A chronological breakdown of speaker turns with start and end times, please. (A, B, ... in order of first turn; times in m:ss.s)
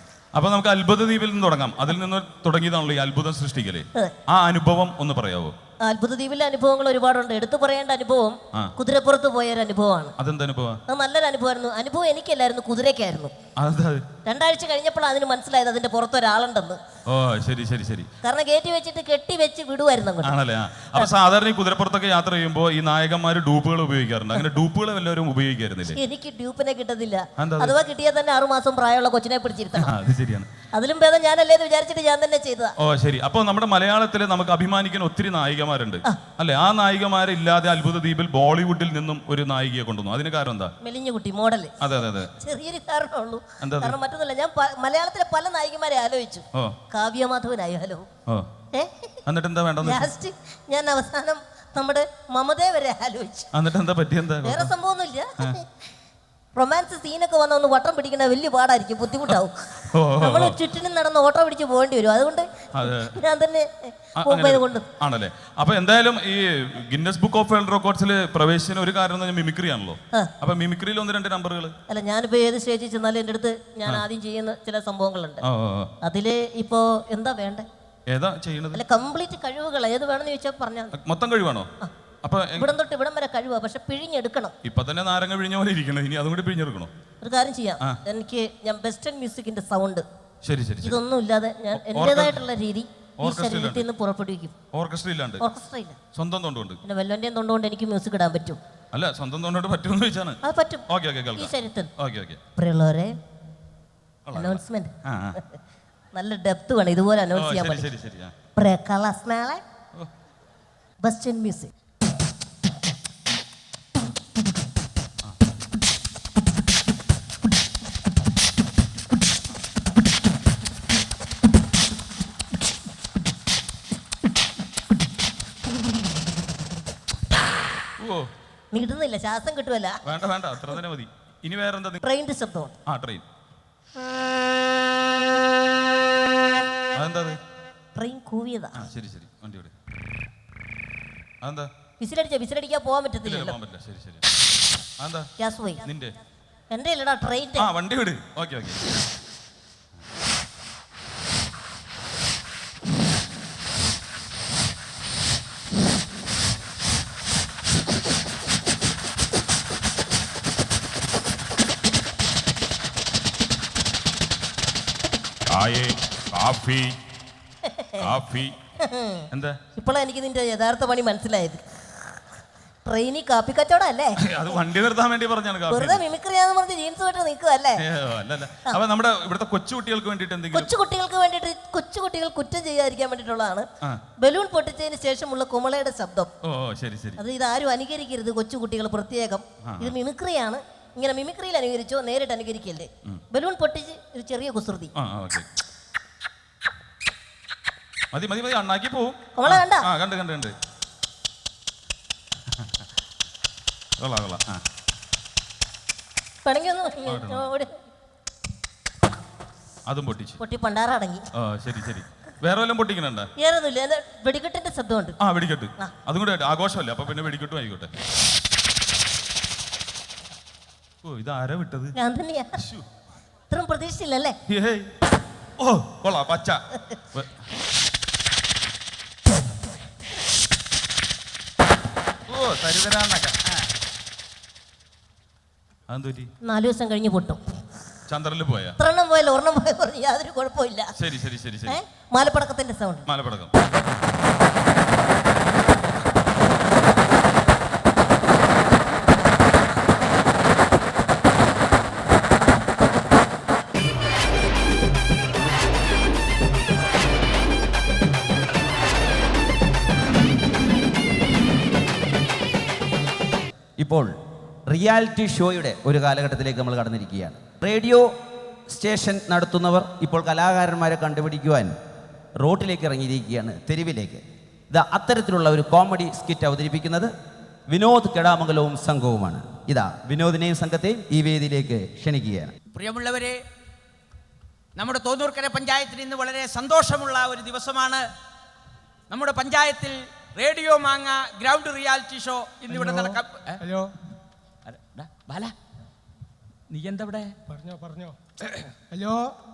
0:00.3-0:05.5 A
0:05.8-0:10.1 B
0:10.2-0:10.8 A
0:10.9-0:13.3 B
0:13.6-0:14.0 A
0:14.2-0:16.8 B
0:17.1-0:18.1 A
0:18.2-0:20.3 B
0:20.2-0:26.0 A
0:26.0-0:29.9 B
0:27.4-0:27.7 A
0:29.8-0:30.5 A
0:30.7-0:32.7 B
0:32.8-0:40.7 A
0:40.8-0:41.7 B
0:41.8-0:42.3 A
0:42.4-0:48.1 B
0:43.6-0:44.0 A
0:48.7-0:49.2 B
0:49.3-0:50.1 A
0:49.8-0:53.5 B
0:53.5-0:54.7 A
0:54.4-0:55.7 B
0:56.6-1:02.5 B
0:59.9-1:00.6 A
1:02.7-1:03.2 A
1:03.0-1:04.8 B
1:04.2-1:11.7 A
1:11.9-1:15.4 B
1:15.4-1:15.9 A
1:16.0-1:17.6 B
1:18.1-1:18.8 A
1:18.7-1:20.9 B
1:20.9-1:21.7 A
1:22.2-1:22.7 A
1:22.6-1:24.5 B
1:24.6-1:26.9 A
1:27.2-1:30.0 B
1:30.4-1:31.0 A
1:30.8-1:34.5 B
1:31.7-1:32.4 A
1:33.2-1:33.9 A
1:34.7-1:35.4 A
1:35.4-1:36.0 B
1:36.1-1:36.8 A
1:36.8-1:38.6 B
1:38.9-1:42.4 A
1:40.4-1:40.8 B
1:41.3-1:41.9 B
1:42.6-1:43.2 B
1:44.3-1:45.4 A
1:44.3-1:45.6 B
1:46.1-1:47.9 B
1:47.3-1:48.3 A
1:48.6-1:49.6 B
1:51.0-1:51.7 B
2:08.0-2:08.3 A
2:08.7-2:10.0 B
2:10.0-2:12.0 A
2:12.0-2:12.8 B
2:12.9-2:13.2 A
2:16.9-2:17.4 A
2:17.9-2:18.8 B
2:18.8-2:19.7 A
2:21.4-2:21.7 A
2:22.0-2:23.6 B
2:23.2-2:24.2 A
2:25.0-2:25.3 A
2:25.4-2:25.9 B
2:25.8-2:26.1 A
2:26.7-2:27.7 B
2:27.6-2:28.8 A
2:45.5-2:47.0 A
2:47.6-2:48.1 B
2:48.0-2:48.5 A
2:48.8-2:51.6 B
2:49.3-2:49.6 A
2:52.8-2:54.2 B
2:54.2-2:56.0 A
2:55.7-2:57.8 B
2:57.8-3:00.7 A
3:00.5-3:03.7 B
3:04.2-3:06.3 B
3:06.4-3:07.2 A
3:07.2-3:14.9 B
3:09.6-3:09.9 A
3:15.0-3:15.5 A
3:18.1-3:20.5 A
3:19.4-3:19.8 B
3:24.0-3:24.6 A
3:26.4-3:27.8 B
3:27.1-3:27.5 A
3:29.9-3:30.4 A
3:30.4-3:31.2 B
3:31.3-3:33.3 A
3:33.4-3:35.2 B
3:35.2-3:37.9 A
3:41.0-3:41.9 A
3:41.9-3:42.6 B
3:42.6-3:42.8 A
3:43.5-3:44.4 B
3:44.5-3:44.9 A
3:45.6-3:46.6 A
3:52.3-3:53.6 A
3:55.9-3:56.3 A
3:56.4-3:57.4 B
3:58.1-3:58.8 A
3:58.8-4:00.9 B
4:01.0-4:01.8 A
4:01.7-4:03.0 B
4:03.1-4:03.5 A
4:23.8-4:24.1 C
4:24.7-4:28.1 C
4:28.7-4:31.7 C
4:32.4-4:37.1 C
4:37.7-4:42.5 C
4:42.7-4:43.4 D
4:44.8-4:48.0 D
4:49.1-4:53.6 D
4:52.7-4:53.9 E
4:54.6-4:55.5 D
4:56.7-4:57.3 D
4:57.5-4:59.3 E